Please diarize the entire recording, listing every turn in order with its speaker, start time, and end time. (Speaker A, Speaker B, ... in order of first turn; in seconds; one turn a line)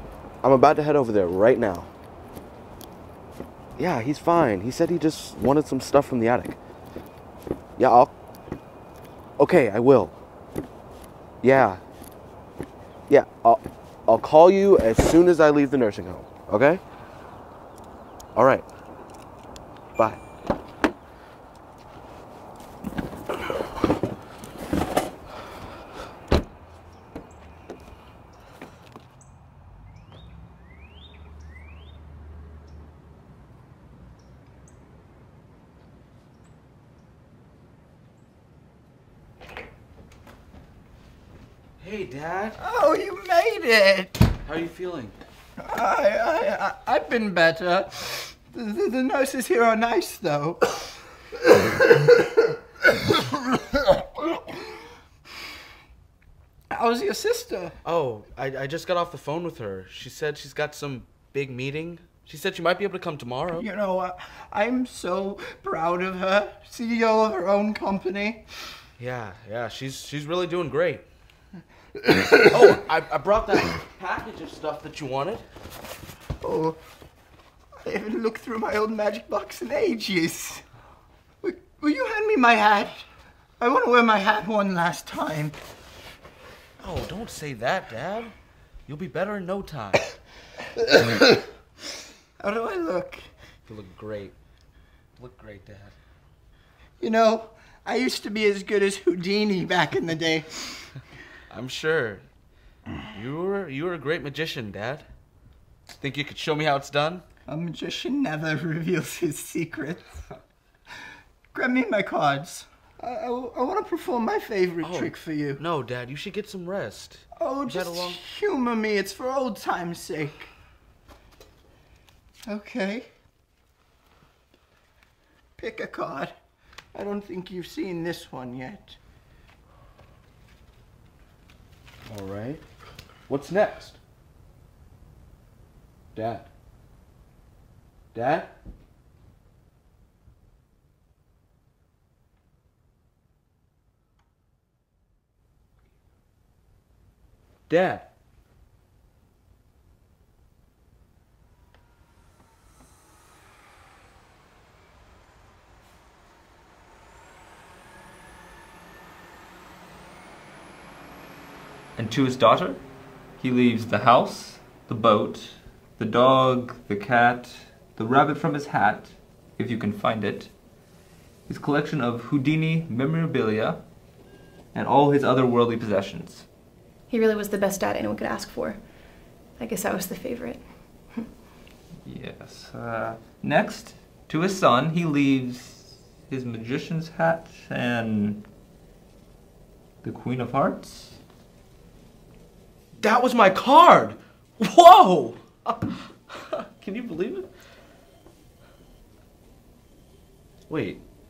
Speaker A: 0.4-1.9
Speaker A: 3.8-6.6
Speaker A: 7.8-8.1
Speaker A: 9.4-10.2
Speaker A: 11.4-11.8
Speaker A: 13.1-16.8
Speaker A: 18.4-18.7
Speaker A: 41.8-42.6
Speaker B: 42.6-44.1
Speaker A: 44.4-45.1
Speaker B: 45.6-50.6
Speaker B: 56.7-57.7
Speaker A: 57.8-63.6
Speaker B: 63.6-68.4
Speaker A: 69.0-71.0
Speaker A: 72.3-75.4
Speaker B: 76.4-76.8
Speaker B: 77.8-80.6
Speaker B: 81.4-83.0
Speaker B: 83.6-85.5
Speaker A: 86.8-88.3
Speaker A: 88.9-90.0
Speaker B: 92.4-93.2
Speaker A: 93.7-94.4
Speaker A: 95.2-95.9
Speaker B: 97.0-100.5
Speaker A: 101.5-102.2
Speaker A: 103.1-105.0
Speaker A: 105.9-107.2
Speaker B: 107.5-110.1
Speaker B: 111.5-115.6
Speaker A: 114.8-118.2
Speaker B: 117.3-120.5
Speaker B: 122.5-123.1
Speaker B: 125.6-126.3
Speaker B: 126.9-128.9
Speaker A: 132.1-132.6
Speaker A: 133.3-134.0
Speaker A: 136.1-136.5
Speaker A: 138.1-138.5
Speaker A: 147.7-148.1
Speaker C: 161.9-162.8
Speaker C: 163.4-170.5
Speaker C: 171.5-173.8
Speaker C: 174.7-176.4
Speaker D: 177.1-178.8
Speaker D: 179.6-180.6
Speaker C: 182.0-188.4
Speaker C: 190.0-191.2
Speaker A: 193.0-197.5
Speaker A: 200.7-201.0